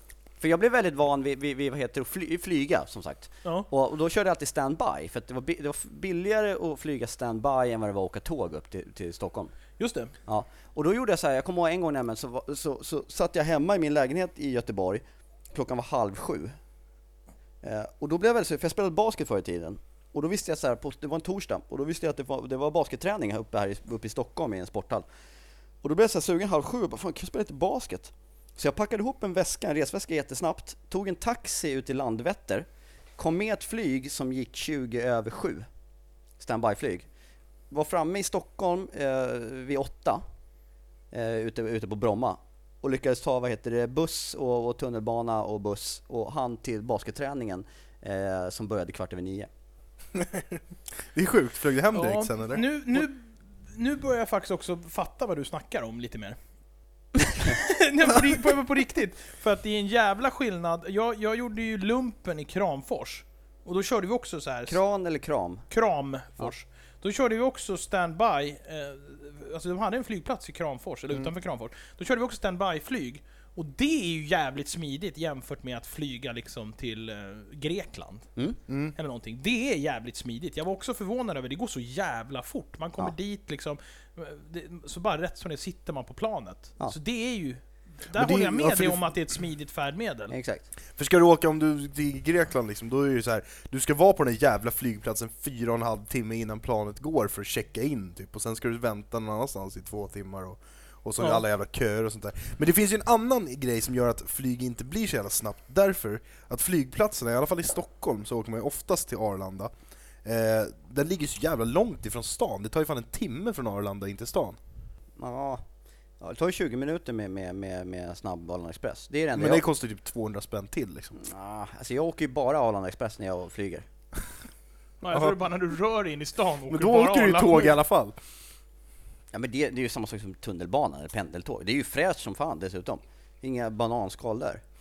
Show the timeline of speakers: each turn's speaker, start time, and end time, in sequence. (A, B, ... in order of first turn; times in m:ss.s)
0:00.4-0:09.5 A
0:09.8-0:10.1 B
0:10.2-0:16.6 A
0:17.6-0:25.0 A
0:25.8-0:32.6 A
0:33.2-0:35.7 A
0:36.4-0:37.1 A
0:37.7-0:40.2 A
0:41.1-0:49.5 A
0:50.1-0:50.6 C
0:51.1-0:53.0 C
0:51.9-0:56.4 B
0:57.4-1:04.8 B
1:04.6-1:05.6 A
1:05.7-1:18.3 B
1:18.7-1:18.9 C
1:19.0-1:30.3 B
1:28.1-1:29.0 C
1:30.3-1:30.7 A
1:31.0-1:49.7 C
1:50.2-1:54.6 C
1:55.2-1:55.6 A
1:56.2-1:59.6 A
1:59.3-2:01.2 C
2:01.1-2:03.8 A
2:05.0-2:07.8 B
2:06.7-2:08.2 C
2:09.3-2:14.6 A